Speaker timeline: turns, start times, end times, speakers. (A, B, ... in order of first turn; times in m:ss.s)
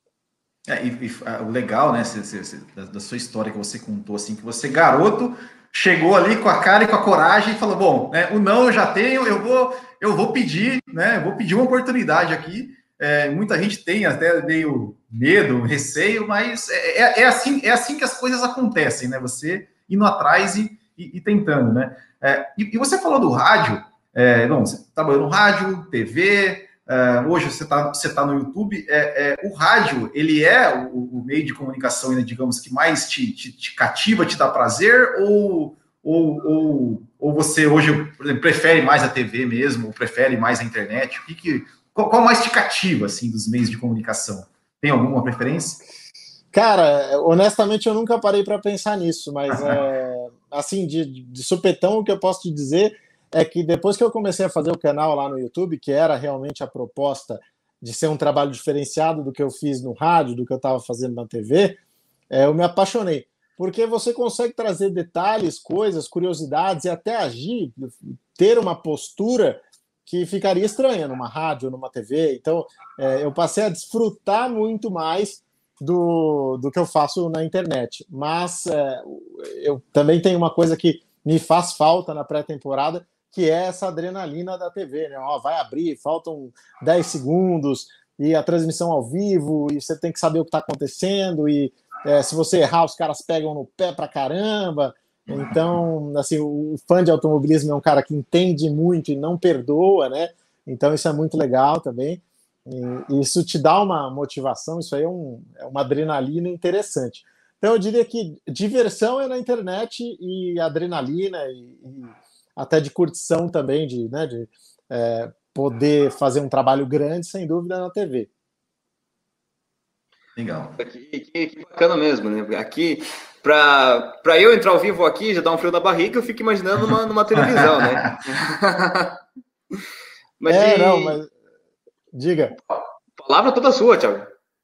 0:00.7-0:45.8 A
0:46.5-1:01.8 B
1:02.3-1:58.3 B
2:00.4-2:00.8 A
2:00.8-2:09.2 C
2:10.4-2:11.2 C
2:10.5-2:11.3 B
2:12.1-2:12.6 B
2:12.7-2:14.3 C